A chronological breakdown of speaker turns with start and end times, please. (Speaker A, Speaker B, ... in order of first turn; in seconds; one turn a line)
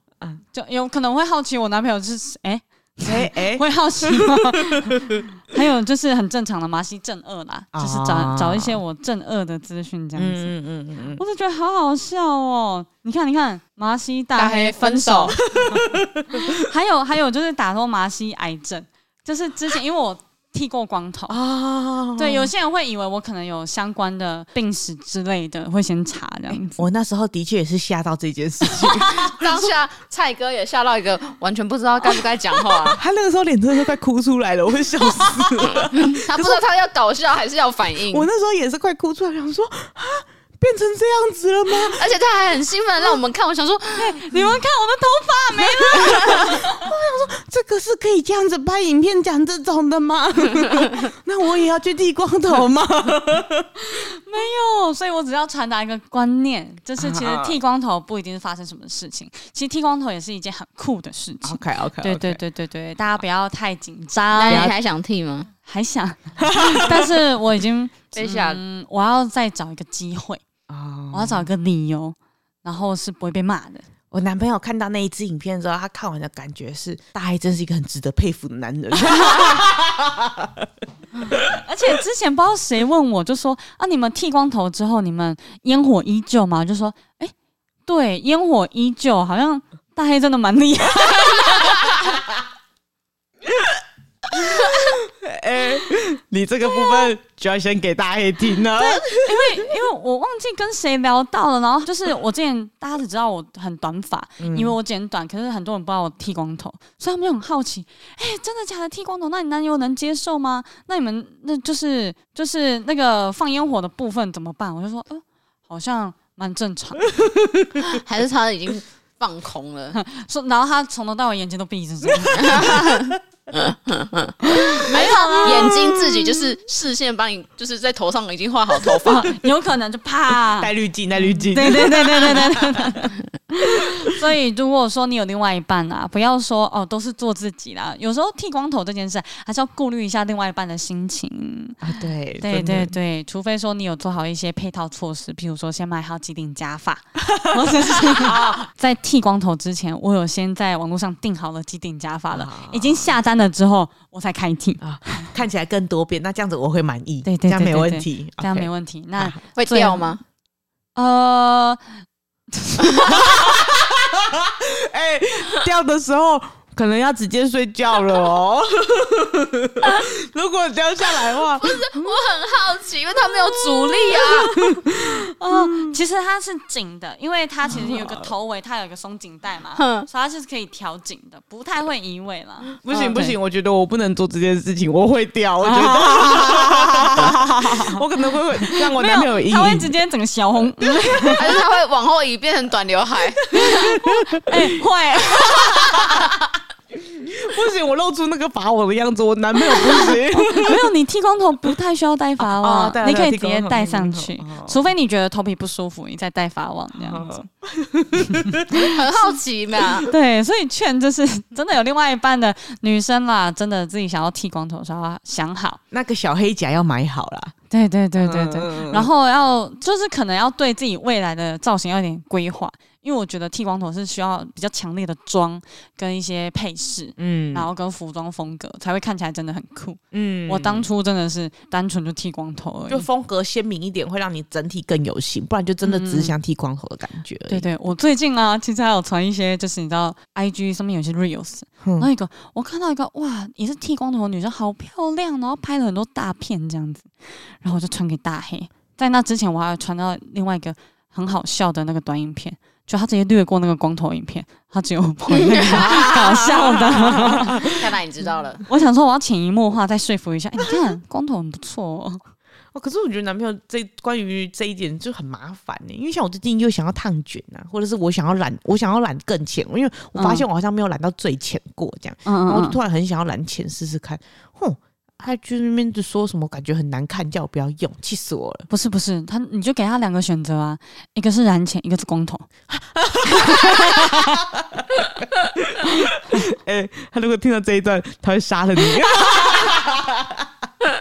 Speaker A: 0.5-10.5
Speaker B: 3.0-5.2
Speaker B: 7.7-8.8
Speaker B: 10.2-11.2
Speaker A: 11.2-21.4
Speaker C: 14.3-15.3
Speaker B: 15.4-16.4
Speaker B: 21.3-22.5
Speaker A: 22.1-26.9
Speaker B: 26.5-29.7
Speaker C: 29.1-33.0
Speaker B: 33.0-36.6
Speaker C: 35.9-38.3
Speaker B: 38.1-42.1
Speaker C: 41.9-44.2
Speaker A: 44.0-46.9
Speaker B: 46.0-53.7
Speaker A: 53.8-64.8
Speaker B: 57.0-57.6
Speaker B: 61.5-62.4
Speaker C: 64.3-65.5
Speaker B: 64.5-64.7
Speaker A: 65.6-70.4
Speaker B: 66.4-67.2
Speaker C: 68.1-68.6
Speaker B: 70.7-71.5
Speaker A: 71.1-73.8
Speaker B: 74.1-80.3
Speaker A: 79.0-79.7
Speaker A: 81.2-87.3
Speaker A: 87.9-92.1
Speaker B: 94.3-99.7
Speaker A: 96.7-97.1
Speaker A: 98.8-117.1
Speaker B: 104.4-104.8
Speaker C: 117.9-120.0
Speaker A: 119.9-122.9
Speaker C: 122.4-129.3
Speaker A: 124.5-125.9
Speaker B: 125.5-126.4
Speaker A: 129.1-155.3
Speaker B: 130.6-133.0
Speaker B: 141.8-142.9
Speaker B: 147.3-148.7
Speaker B: 152.3-153.2
Speaker B: 154.8-159.4
Speaker A: 157.2-160.1
Speaker C: 159.6-160.2
Speaker A: 161.0-161.8
Speaker A: 162.6-163.2
Speaker B: 162.8-172.1
Speaker C: 171.6-174.5
Speaker B: 173.9-175.9
Speaker A: 174.1-174.5
Speaker A: 175.3-183.4
Speaker B: 177.7-178.3
Speaker C: 179.8-180.1
Speaker B: 182.8-189.9
Speaker C: 182.9-183.2
Speaker A: 185.6-191.6
Speaker B: 190.9-191.4
Speaker C: 191.3-193.4
Speaker B: 193.5-194.7
Speaker A: 193.5-196.1
Speaker B: 195.2-196.3
Speaker B: 196.9-200.8
Speaker A: 199.7-207.5
Speaker B: 202.4-204.8
Speaker B: 206.9-208.9
Speaker A: 208.8-209.3
Speaker C: 208.9-210.1
Speaker A: 210.0-215.8
Speaker B: 215.9-217.5
Speaker A: 217.7-233.1
Speaker B: 218.2-219.1
Speaker B: 227.2-227.7
Speaker B: 230.1-230.9
Speaker B: 232.9-237.7
Speaker A: 235.8-236.3
Speaker A: 237.5-257.7
Speaker B: 241.8-242.1
Speaker C: 255.3-255.9
Speaker B: 255.5-257.7
Speaker C: 257.7-258.6
Speaker A: 258.7-262.2
Speaker B: 260.6-260.9
Speaker B: 262.7-278.7
Speaker A: 270.1-270.5
Speaker A: 272.2-272.8
Speaker A: 278.7-282.5
Speaker B: 282.9-285.0
Speaker A: 283.4-284.0
Speaker B: 285.6-290.3